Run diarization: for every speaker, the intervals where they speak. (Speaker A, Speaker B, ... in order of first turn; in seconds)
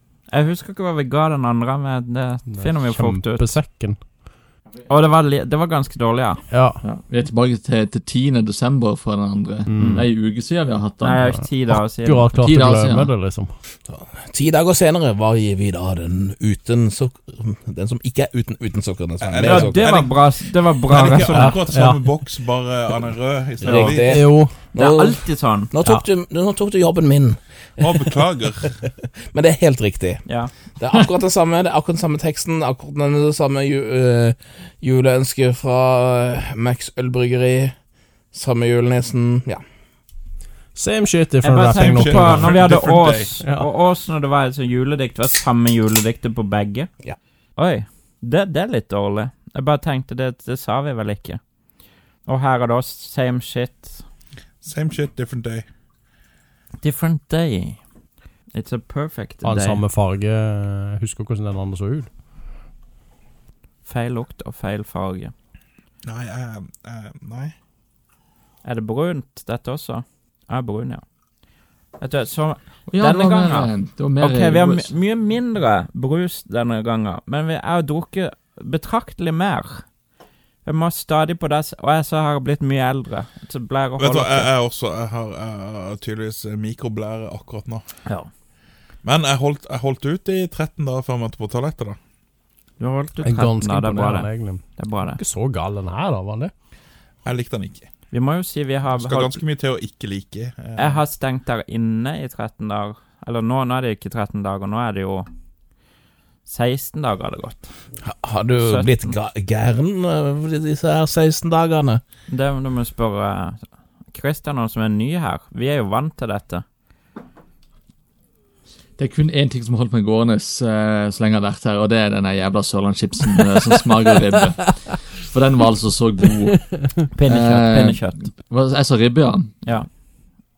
Speaker A: 0.3-3.6, 4.8-6.4, 11.0-12.5, 19.4-21.6, 23.6-26.1, 30.3-30.5, 41.4-46.9, 47.6-51.4, 52.3-54.0, 56.8-57.8, 58.5-59.8, 63.9-65.3, 68.6-71.0, 72.0-79.8, 80.6-84.5, 92.8-95.2, 98.1-99.4, 100.8-105.3, 106.5-107.7, 108.6-109.2, 112.3-116.6, 127.1-128.3, 129.6-129.9
Speaker B: 2.5-4.0, 6.5-6.8, 9.7-10.1, 11.2-13.6, 21.3-22.0, 23.8-24.6, 40.8-42.7, 43.4-43.7, 59.4-62.1, 93.2-96.5
Speaker C: 6.8-11.2, 12.4-13.2, 72.9-74.9, 119.0-126.7, 127.3-129.5
Speaker D: 13.9-19.9, 23.6-27.9, 28.8-30.2, 30.8-37.8, 38.3-39.6, 108.0-112.0
Speaker E: 19.2-20.3, 20.9-24.2, 27.8-28.7, 41.7-43.3, 54.6-55.6, 66.0-67.5, 84.0-87.8, 89.0-92.0, 97.2-97.9, 99.0-101.0